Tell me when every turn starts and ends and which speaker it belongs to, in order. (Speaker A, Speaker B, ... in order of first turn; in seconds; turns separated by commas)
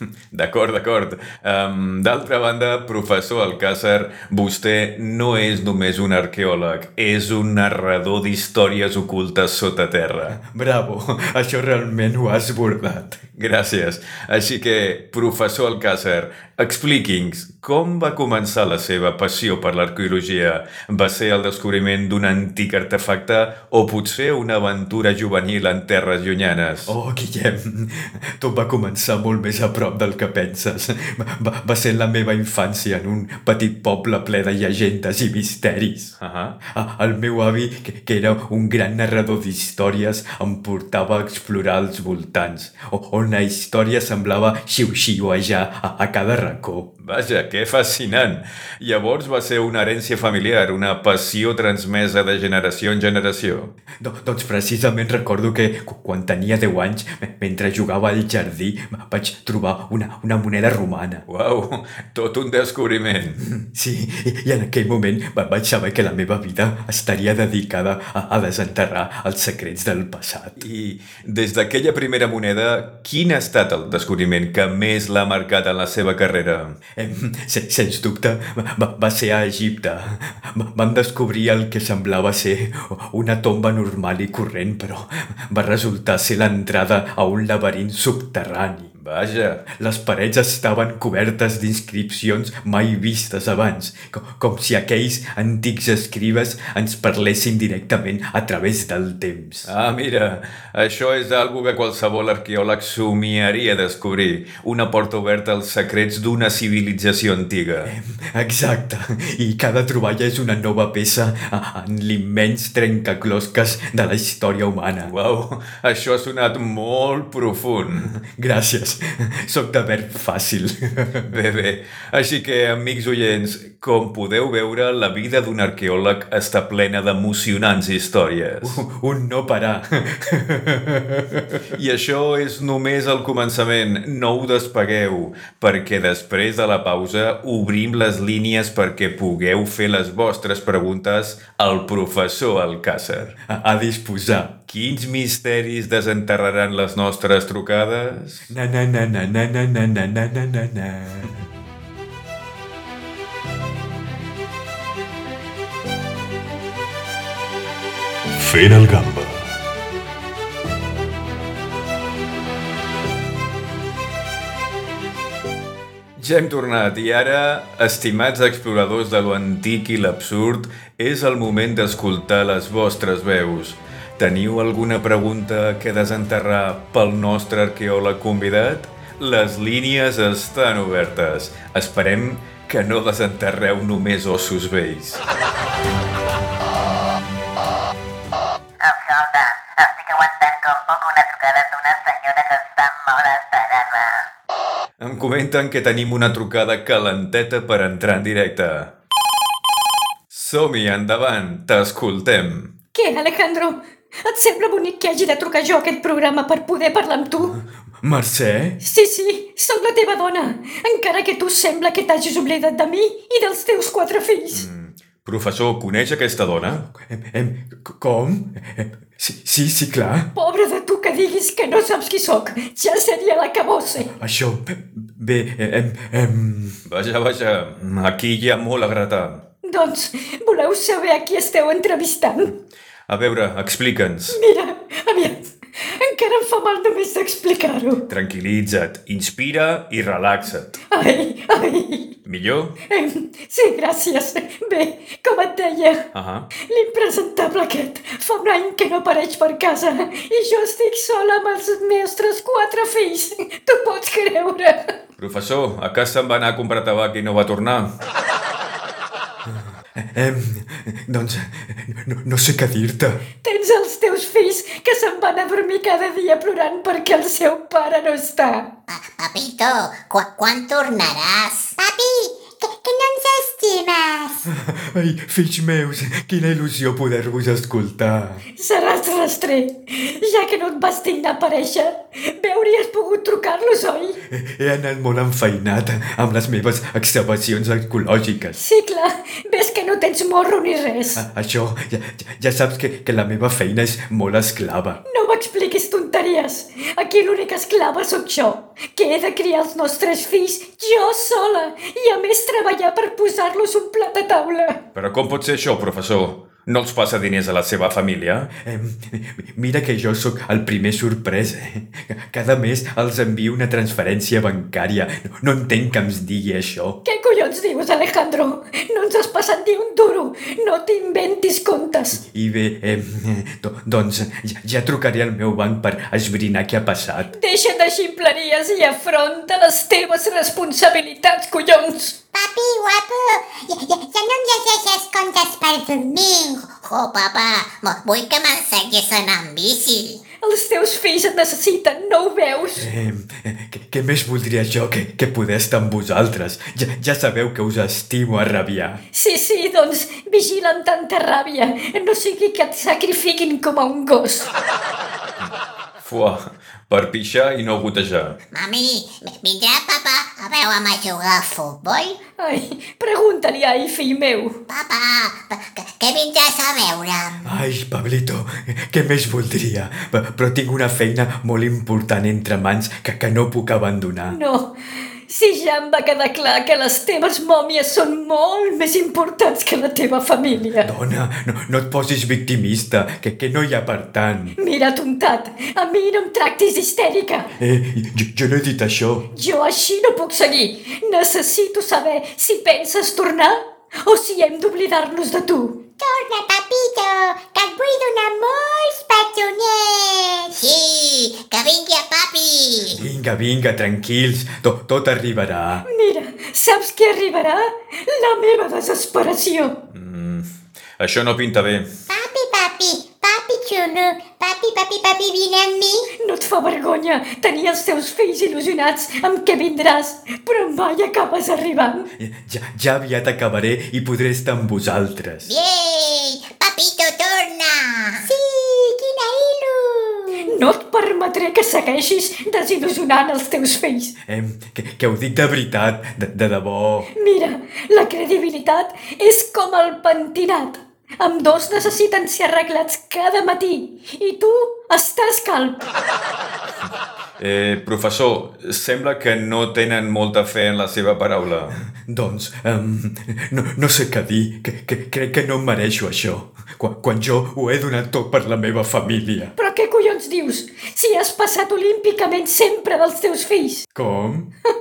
Speaker A: 0.3-10.4, Speaker B: 10.4-13.2, Speaker A: 13.3-26.9, Speaker B: 26.9-46.9, Speaker A: 36.2-36.5, Speaker A: 47.0-53.7, Speaker B: 53.9-61.2, Speaker A: 61.3-63.5, Speaker B: 63.6-70.6, Speaker A: 70.6-76.8, Speaker B: 76.9-88.9, Speaker A: 89.0-89.7, Speaker B: 89.7-99.7, Speaker A: 99.6-107.9, Speaker B: 107.8-115.1, Speaker A: 115.0-118.2, Speaker B: 118.2-121.3, Speaker A: 121.3-128.8, Speaker B: 128.6-131.8, Speaker A: 131.7-143.3, Speaker B: 143.4-144.6, Speaker A: 144.7-148.5, Speaker B: 148.5-151.4, Speaker A: 158.4-159.4, Speaker A: 166.2-185.2, Speaker C: 188.8-194.2, Speaker A: 195.0-198.9, Speaker A: 200.3-202.7, Speaker D: 202.9-207.6, Speaker B: 207.9-208.8, Speaker D: 208.8-214.7, Speaker A: 214.5-216.8, Speaker B: 216.7-220.3, Speaker D: 220.3-224.1, Speaker B: 224.0-226.8, Speaker A: 226.9-229.4, Speaker D: 229.6-232.6, Speaker A: 233.1-234.4, Speaker D: 234.3-238.1, Speaker A: 238.1-240.8, Speaker D: 240.9-242.2, Speaker A: 242.2-242.8, Speaker D: 242.9-246.1, Speaker A: 246.1-246.5, Speaker D: 246.6-255.0, Speaker A: 255.2-257.9, Speaker B: 259.5-263.2, Speaker D: 263.4-268.7, Speaker C: 268.9-271.8, Speaker E: 271.8-274.4, Speaker B: 274.5-278.4, Speaker D: 278.6-284.2, Speaker B: 284.3-288.6, Speaker D: 288.6-291.2, Speaker B: 291.1-295.0, Speaker D: 295.1-304.8, Speaker A: 304.9-308.5, Speaker B: 308.5-317.0, Speaker D: 317.1-322.2, Speaker B: 322.2-327.3, Speaker D: 327.3-332.1, Speaker E: 332.3-336.6, Speaker C: 336.6-340.2, Speaker D: 340.4-342.9, Speaker B: 342.8-349.0, Speaker D: 349.1-354.5, Speaker A: 356.0-358.4, Speaker C: 358.5-362.2, Speaker D: 362.4-364.6, Speaker C: 364.7-367.4, Speaker B: 367.4-374.4, Speaker D: 374.3-380.9, Speaker B: 380.8-384.6, Speaker D: 384.6-387.5, Speaker B: 387.6-389.3, Speaker D: 389.3-395.8, Speaker E: 396.0-400.6, Speaker C: 400.6-403.0, Speaker B: 402.9-405.9, Speaker D: 405.9-409.9, Speaker A: 409.9-410.5, Speaker A: 411.0-411.9, Speaker E: 412.1-416.1, Speaker D: 416.2-422.1, Speaker B: 422.2-425.5, Speaker C: 425.4-428.3, Speaker E: 428.2-430.5, Speaker D: 430.4-434.1, Speaker B: 434.3-437.1, Speaker D: 437.1-445.9, Speaker A: 447.4-451.8, Speaker B: 451.9-459.5, Speaker D: 459.6-463.9, Speaker B: 463.9-464.5